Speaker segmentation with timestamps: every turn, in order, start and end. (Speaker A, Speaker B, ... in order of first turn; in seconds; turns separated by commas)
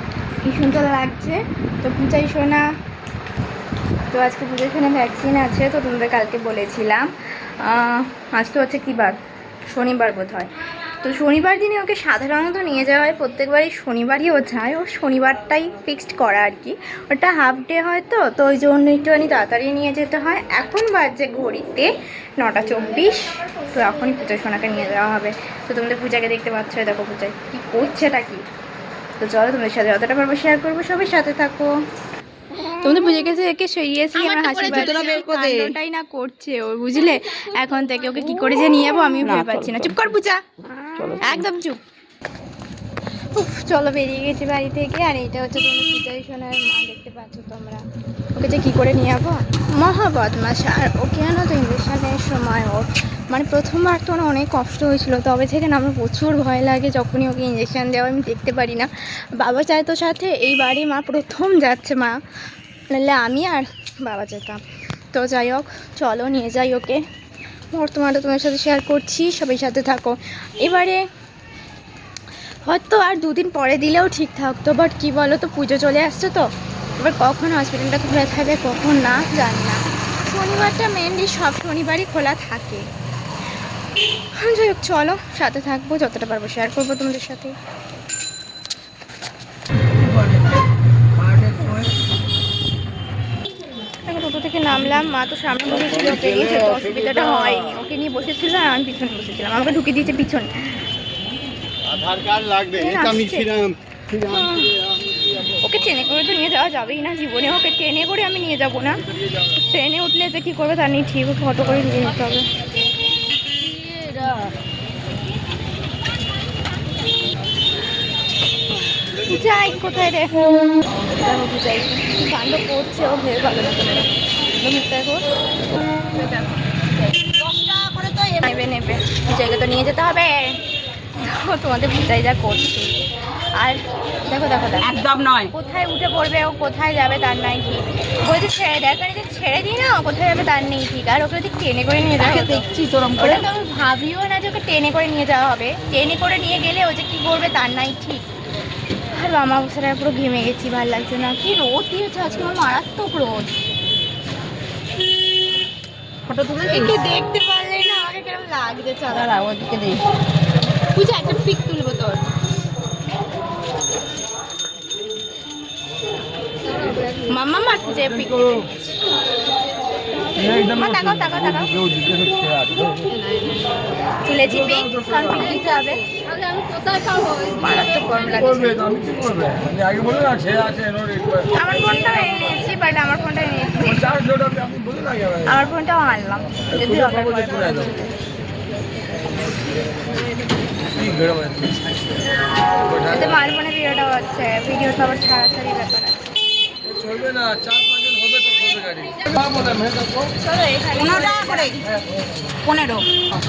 Speaker A: 0.4-2.7, Speaker A: 4.1-9.2, Speaker A: 9.7-28.4, Speaker A: 29.2-31.7, Speaker A: 32.8-40.4, Speaker B: 34.1-35.7, Speaker B: 39.2-40.0, Speaker B: 40.8-41.5, Speaker A: 41.2-41.8, Speaker A: 43.3-62.2, Speaker A: 62.9-64.6, Speaker A: 65.1-67.0, Speaker A: 67.7-71.1, Speaker A: 72.6-82.9, Speaker A: 84.3-87.5, Speaker A: 94.0-100.5, Speaker A: 102.5-104.8, Speaker A: 105.6-112.5, Speaker B: 113.6-114.5, Speaker A: 119.1-120.5, Speaker A: 121.1-125.2, Speaker A: 126.1-126.9, Speaker B: 127.2-128.5, Speaker A: 128.4-130.6, Speaker A: 131.2-134.9, Speaker B: 134.8-135.5, Speaker A: 135.5-142.6, Speaker B: 142.2-143.4, Speaker A: 143.2-148.2, Speaker A: 149.1-153.5, Speaker B: 156.3-157.0, Speaker A: 156.7-159.4, Speaker B: 159.1-160.0, Speaker A: 160.9-162.2, Speaker A: 167.1-168.7, Speaker C: 170.3-173.2, Speaker A: 170.4-172.0, Speaker B: 173.2-173.7, Speaker A: 174.2-176.1, Speaker C: 174.6-175.3, Speaker A: 177.4-179.0, Speaker C: 178.6-181.5, Speaker A: 181.5-184.1, Speaker C: 183.9-185.5, Speaker A: 185.4-188.1, Speaker C: 186.7-187.9, Speaker C: 190.9-192.1, Speaker C: 192.9-193.4, Speaker A: 193.0-196.3, Speaker C: 196.9-200.3, Speaker A: 200.3-201.7, Speaker B: 200.9-201.9, Speaker B: 202.6-203.1